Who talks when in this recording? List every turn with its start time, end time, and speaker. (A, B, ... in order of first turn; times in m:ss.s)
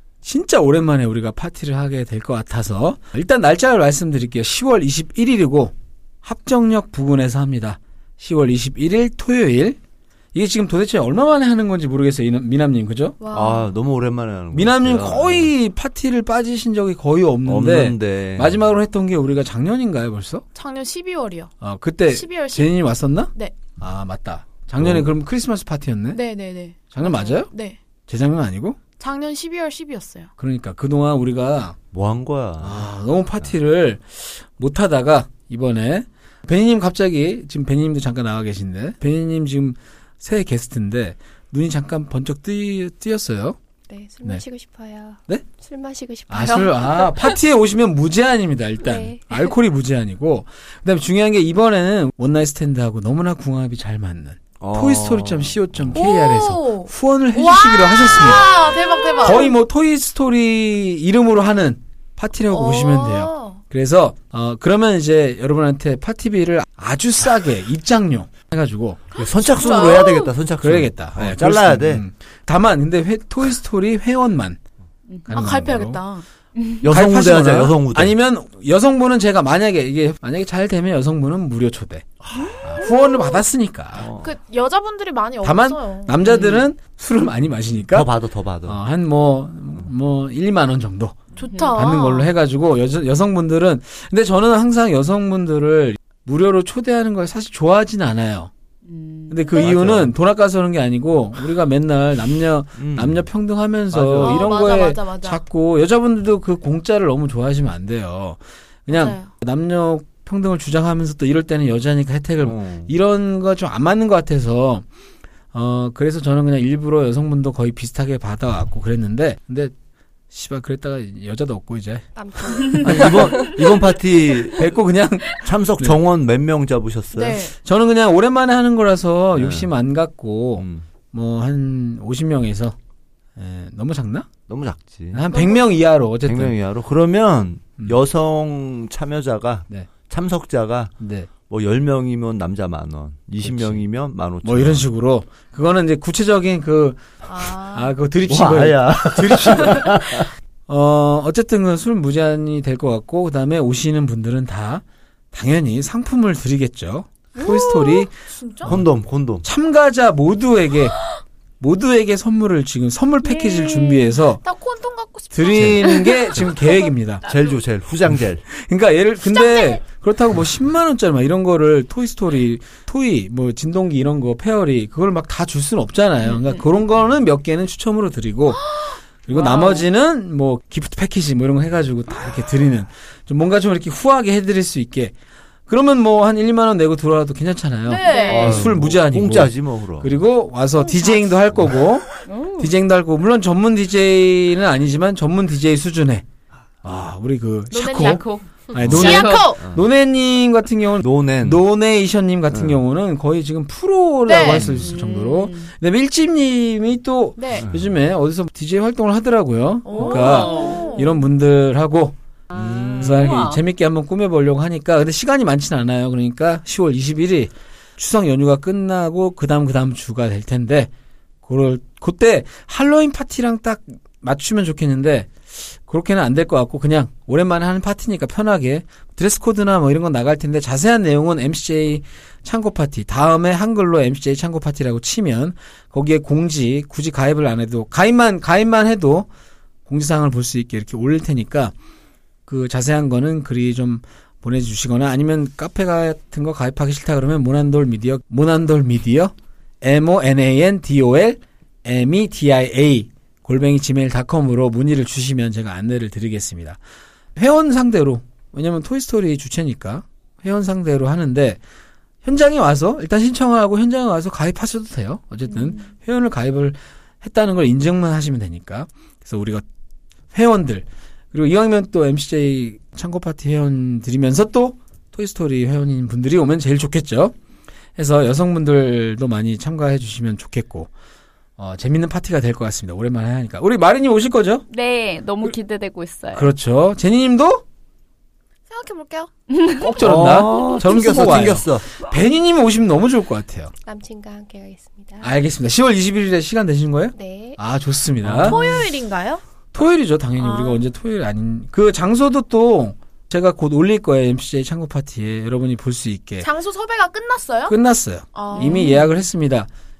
0:00.2-0:05.7 A
0:06.2-0:09.8 A
0:10.3-0:13.2 A
0:13.2-0:13.7 B
0:13.3-0:15.5 C
0:14.5-0:20.4 A
0:17.4-0:18.6 C
0:20.5-0:21.5 B
0:21.6-0:26.2 A
0:22.1-0:22.8 B
0:24.8-0:25.1 C
0:26.1-0:27.8 B
0:26.9-0:27.5 A
0:28.1-0:28.8 A
0:29.0-0:30.3 B
0:30.4-0:31.8 A
0:31.9-0:32.9 C
0:32.6-0:43.6 A
0:43.9-0:47.1 D
0:46.3-0:58.6 A
0:46.4-0:46.7 B
0:48.8-0:49.3 D
0:54.6-0:55.7 C
0:55.9-0:59.5 B
0:59.2-1:09.0 A
1:02.5-1:03.6 B
1:09.1-1:10.3 B
1:09.2-1:12.0 C
1:10.6-1:14.6 A
1:15.2-1:16.2 B
1:15.3-1:16.0 A
1:16.8-1:18.2 C
1:16.9-1:24.1 A
1:22.8-1:23.4 B
1:23.9-1:24.3 C
1:24.2-1:26.4 B
1:25.4-1:28.1 A
1:27.8-1:28.8 C
1:28.6-1:31.2 A
1:31.4-1:32.3 B
1:31.4-1:31.8 E
1:31.7-1:38.5 A
1:38.9-1:39.5 E
1:39.3-1:54.8 A
1:39.5-1:40.1 C
1:42.8-1:43.3 C
1:43.9-1:44.5 C
1:44.2-1:45.4 B
1:48.9-1:49.3 B
1:52.4-1:52.9 C
1:55.5-1:59.7 A
2:00.3-2:03.4 A
2:02.1-2:03.2 D
2:02.7-2:04.7 C
2:04.5-2:06.0 A
2:05.4-2:07.4 C
2:07.1-2:07.5 B
2:07.5-2:12.8 A
2:09.4-2:09.7 C
2:10.6-2:10.8 C
2:13.4-2:14.3 A
2:14.5-2:15.2 C
2:15.1-2:16.6 A
2:15.3-2:15.6 B
2:16.2-2:24.8 C
2:21.0-2:21.3 A
2:23.4-2:23.8 A
2:24.4-2:38.1 A
2:27.2-2:27.9 B
2:28.2-2:30.3 C
2:37.4-2:38.7 B
2:38.6-2:39.4 C
2:39.4-2:41.0 A
2:41.6-2:44.4 A
2:43.2-2:46.7 B
2:45.3-2:47.2 A
2:47.2-2:48.4 C
2:48.5-3:05.1 A
2:49.3-2:49.8 B
2:59.3-2:59.8 B
3:05.7-3:16.2 A
3:07.8-3:08.7 B
3:08.1-3:10.2 C
3:12.2-3:12.7 E
3:16.8-3:32.2 A
3:17.7-3:18.3 B
3:18.0-3:19.5 E
3:18.8-3:19.8 C
3:18.9-3:19.6 B
3:21.0-3:21.6 C
3:22.5-3:22.8 C
3:24.2-3:24.6 B
3:24.5-3:24.9 C
3:24.7-3:25.7 E
3:27.4-3:27.6 B
3:27.6-3:27.9 C
3:29.8-3:31.2 B
3:30.2-3:31.0 E
3:32.5-3:33.6 E
3:32.5-3:33.4 C
3:33.0-3:40.9 A
3:41.4-3:59.3 A
3:59.8-4:01.7 A
4:02.4-4:16.8 A
4:17.3-4:21.6 A
4:22.2-4:29.6 A
4:30.3-4:37.3 A
4:38.0-4:40.9 A
4:41.6-4:44.6 A
4:44.7-4:46.5 E
4:46.3-4:47.6 A
4:48.7-4:49.4 B
4:49.5-4:49.9 E
4:49.6-4:53.7 A
4:50.0-4:51.8 C
4:53.8-4:55.3 D
4:55.2-4:58.6 A
4:57.1-4:57.6 D
4:58.2-4:58.8 C
4:58.4-4:59.4 B
4:59.7-5:06.4 A
5:00.4-5:00.8 B
5:06.4-5:07.8 B
5:07.7-5:09.7 A
5:08.3-5:09.0 B
5:08.6-5:09.0 E